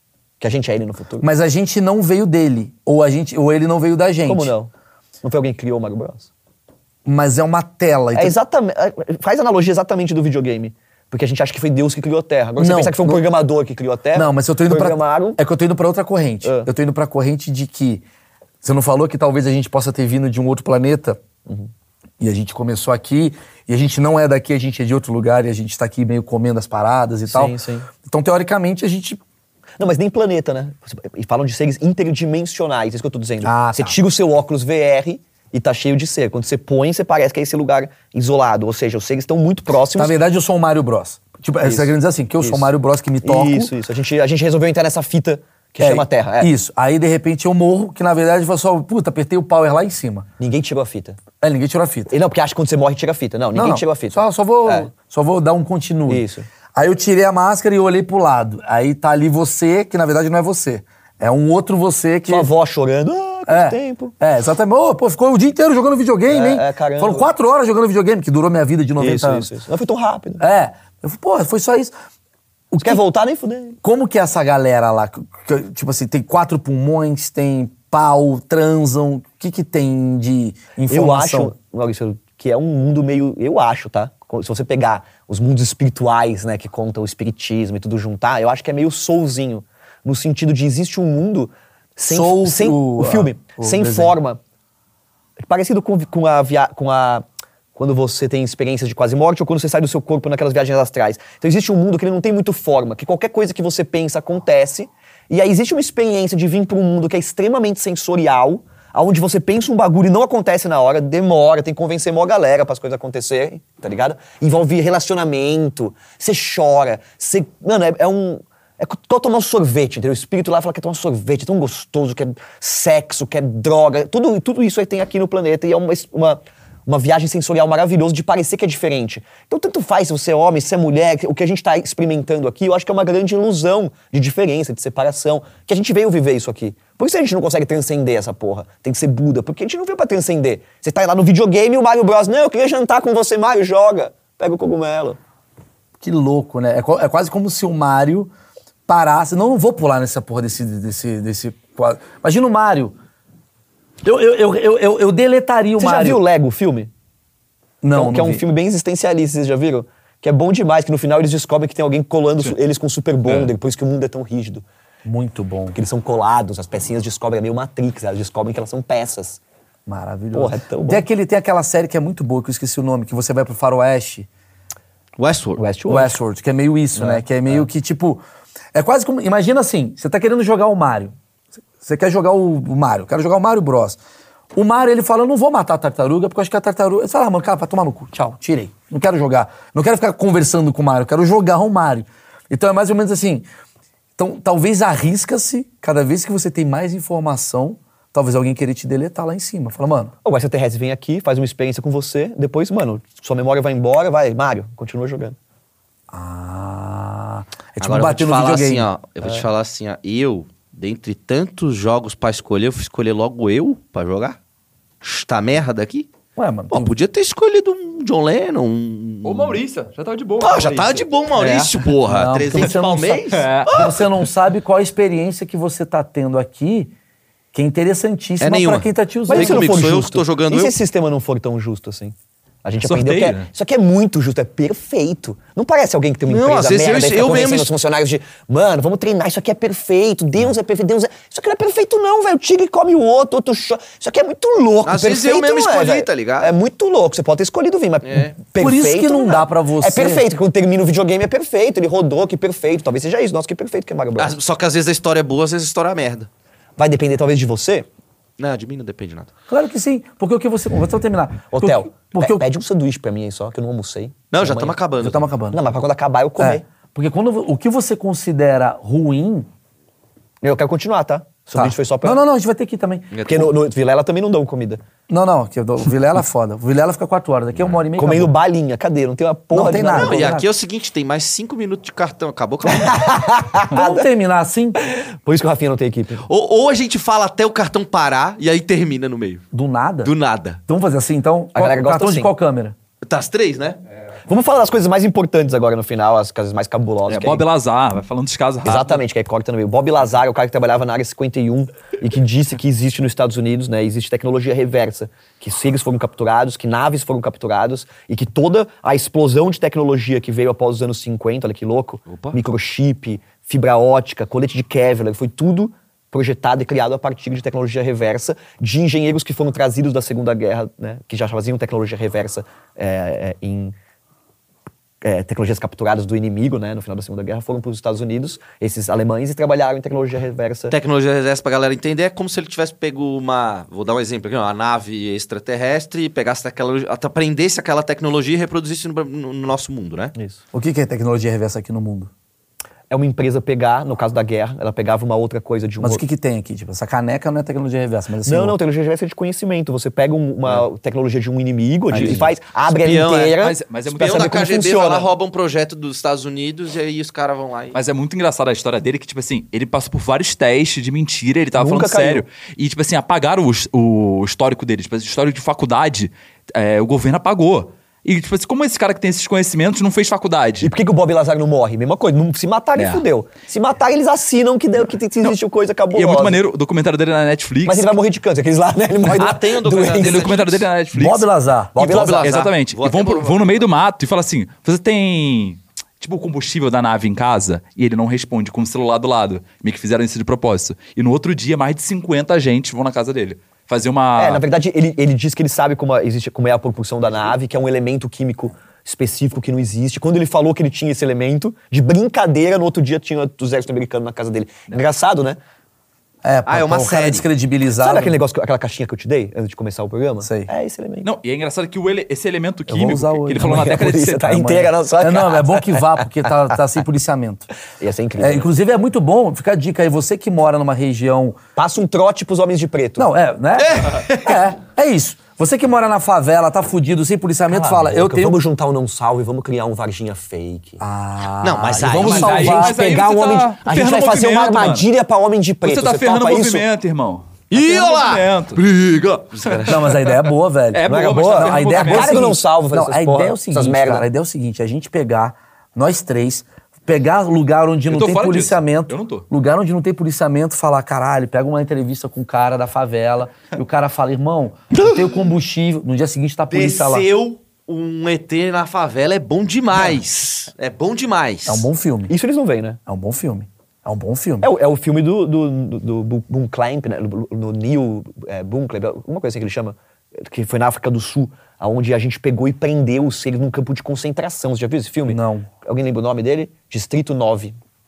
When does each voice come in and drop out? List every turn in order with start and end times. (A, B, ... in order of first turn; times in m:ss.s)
0:00.4-0:01.3 A
0:01.2-0:04.5 B
0:04.2-0:04.7 A
0:05.2-0:06.3 A
0:07.0-0:08.4 B
0:08.1-0:15.4 A
0:12.6-0:13.2 B
0:14.1-0:18.0 B
0:16.4-0:16.7 A
0:18.6-0:21.2 B
0:22.2-0:29.2 B
0:27.3-0:27.9 A
0:29.8-0:40.2 A
0:33.4-0:34.0 B
0:40.0-0:43.7 B
0:41.6-0:42.7 A
0:43.2-0:46.5 A
0:45.8-0:50.3 B
0:50.4-0:51.2 A
0:51.4-0:52.1 B
0:52.1-0:54.9 A
0:53.5-1:02.5 B
0:56.1-0:56.5 A
1:02.3-1:04.1 A
1:03.5-1:09.5 B
1:06.3-1:07.3 A
1:09.0-1:10.4 A
1:10.4-1:11.9 B
1:12.7-1:13.0 B
1:12.8-1:13.8 A
1:13.8-1:21.5 B
1:20.8-1:34.4 A
1:32.1-1:34.1 B
1:35.4-1:37.2 A
1:37.8-2:25.2 A
2:26.0-2:28.3 B
2:28.9-2:32.9 B
2:34.0-2:36.2 B
2:35.8-2:36.9 A
2:37.8-2:38.4 B
2:37.9-2:44.6 A
2:45.0-2:45.8 B
2:45.7-2:49.4 A
2:49.9-2:54.3 B
2:50.3-2:51.0 A
2:55.2-2:55.6 C
2:55.6-2:56.2 A
2:55.9-2:58.2 B
2:57.0-2:57.6 A
2:58.7-3:01.1 B
3:01.8-3:04.0 B
3:04.5-3:13.4 B
3:14.2-3:20.1 B
3:20.2-3:25.4 A
3:26.1-3:28.9 B
3:27.8-3:34.4 C
3:35.0-3:36.1 C
3:36.4-3:36.9 B
3:36.7-3:39.6 C
3:39.2-3:41.7 D
3:40.4-3:44.0 C
3:42.0-3:46.9 B
3:43.3-3:43.9 D
3:47.5-3:49.8 B
3:48.4-3:50.8 C
3:49.3-4:14.3 A
3:52.9-3:53.5 D
3:56.3-3:57.7 C
4:04.8-4:06.5 C
4:08.0-4:08.3 C
4:08.6-4:10.2 B
4:14.2-4:16.3 C
4:16.8-4:17.8 A
4:18.4-4:19.3 C
4:19.5-4:22.4 B
4:21.5-4:24.7 A
4:24.3-4:25.3 C
4:25.0-4:25.6 B
4:25.5-4:26.6 A
4:26.4-4:29.5 B
4:30.4-4:32.2 A
4:31.5-4:33.1 B
4:33.1-4:33.5 C
4:33.2-4:34.8 A
4:35.1-4:38.3 B
4:38.0-4:40.3 A
4:39.5-4:40.4 B
4:39.8-4:43.2 C
4:42.7-4:44.0 A
4:43.7-4:44.8 B
4:44.8-4:46.2 A
4:46.2-4:49.4 C
4:49.5-4:50.1 B
4:50.0-4:50.6 C
4:50.7-4:52.8 B
4:51.5-4:52.3 A
4:53.0-4:53.8 C
4:54.3-4:57.4 A
4:57.1-4:59.0 D
4:58.6-5:23.7 A
5:12.1-5:12.4 C
5:25.0-5:30.7 A
5:30.7-5:40.1 C
5:40.5-5:42.1 B
5:42.9-5:46.0 A
5:45.8-5:48.6 B
5:48.2-5:55.1 A
5:51.9-5:53.4 C
5:53.4-5:54.4 D
5:53.9-5:57.8 C
5:57.7-6:10.7 D
6:01.6-6:02.2 A
6:10.6-6:16.4 A
6:12.8-6:13.0 D
6:15.9-6:17.9 D
6:17.6-6:20.6 A
6:19.0-6:20.6 C
6:20.0-6:21.3 D
6:20.9-6:21.8 B
6:21.7-6:22.3 A
6:21.8-6:23.6 C
6:22.2-6:34.4 D
6:34.2-6:45.4 A
6:46.2-6:48.2 B
6:46.5-6:47.2 C
6:47.8-6:51.1 A
6:50.2-6:50.5 B
6:51.0-6:54.7 D
6:52.7-6:53.8 B
6:53.4-6:56.0 A
6:54.5-6:57.5 B
6:57.8-6:58.5 A
6:58.2-7:01.4 B
7:01.6-7:03.1 A
7:03.0-7:08.4 B
7:03.6-7:04.4 C
7:07.5-7:10.8 A
7:10.8-7:12.8 B
7:11.4-7:12.6 C
7:12.0-7:14.9 D
7:12.1-7:16.6 A
7:15.6-7:18.6 D
7:17.5-7:19.8 C
7:19.4-7:19.9 D
7:19.6-7:37.1 B
7:20.7-7:22.4 D
7:20.8-7:24.0 A
7:27.9-7:29.2 D
7:36.5-7:41.7 C
7:41.4-7:42.1 B
7:42.1-7:42.8 A
7:42.9-7:44.5 B
7:44.4-7:57.6 A
7:55.1-7:55.5 B